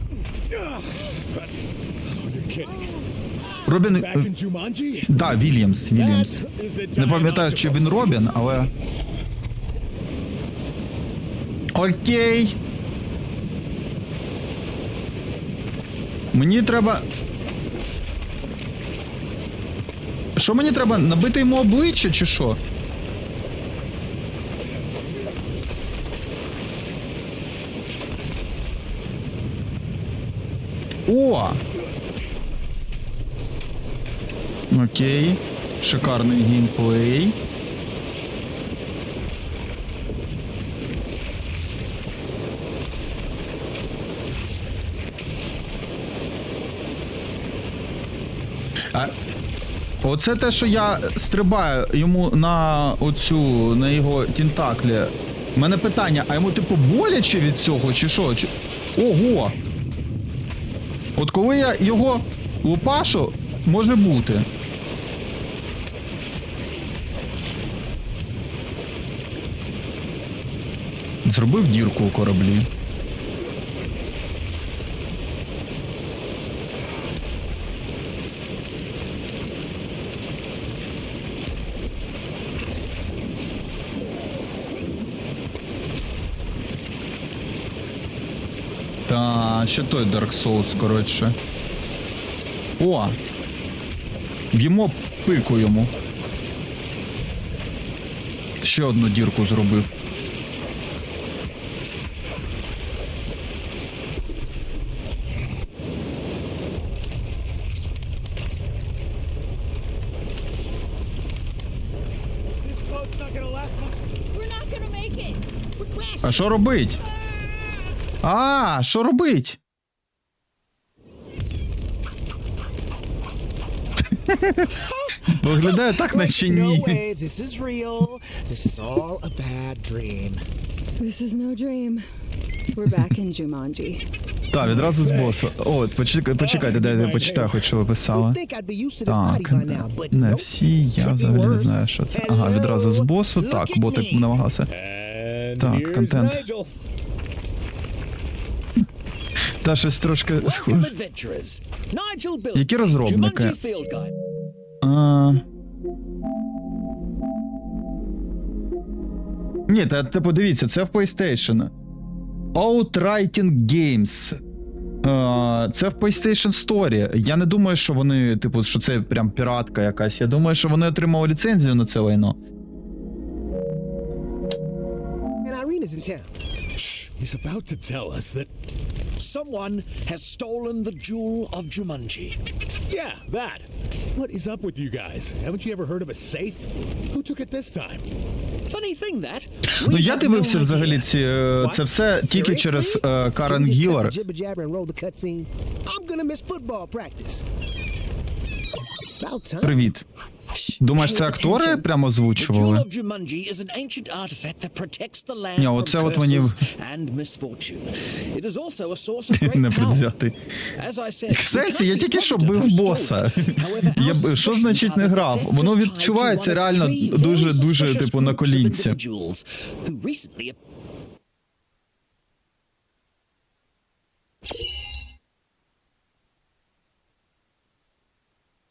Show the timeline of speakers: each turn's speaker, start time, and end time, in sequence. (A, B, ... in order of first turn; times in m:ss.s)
0:02.1-0:03.0 A
0:03.6-0:04.3 B
0:03.6-0:05.2 A
0:05.1-0:06.4 B
0:05.9-0:08.2 A
0:07.0-0:08.7 B
0:11.8-0:12.6 B
0:16.3-0:17.1 B
0:20.4-0:22.6 B
0:31.1-0:31.6 B
0:34.7-0:37.4 B
0:50.0-0:59.6 B
1:01.2-1:04.5 B
1:11.2-1:12.7 B
1:29.1-1:31.4 B
1:32.8-1:33.2 B
1:34.5-1:35.9 B
1:38.6-1:39.9 B
1:52.9-1:53.8 A
1:54.2-1:56.2 C
1:56.2-1:57.0 B
1:58.2-1:59.6 B
2:04.1-2:07.0 B
2:05.6-2:10.4 D
2:11.0-2:12.1 C
2:12.7-2:14.0 C
2:14.5-2:18.4 B
2:14.6-2:15.5 A
2:16.4-2:17.7 A
2:18.1-2:24.4 D
2:19.0-2:24.7 B
2:24.7-2:26.7 A
2:25.6-2:26.5 B
2:29.6-2:30.9 B
2:30.4-2:34.1 E
2:32.5-2:33.6 B
2:34.8-2:35.4 B
2:39.7-2:41.7 B
2:42.6-2:44.4 B
2:45.0-2:52.4 B
2:55.4-2:56.3 D
2:56.8-2:58.5 A
2:59.2-3:02.4 E
3:02.9-3:08.1 A
3:08.7-3:11.9 E
3:09.7-3:14.2 B
3:12.0-3:17.4 D
3:19.2-3:19.9 D
3:19.6-3:20.0 B
3:20.6-3:21.9 C
3:20.8-3:22.8 B
3:22.4-3:30.1 E
3:25.6-3:26.6 B
3:29.3-3:30.4 B
3:30.8-3:40.6 E
3:31.3-3:39.0 B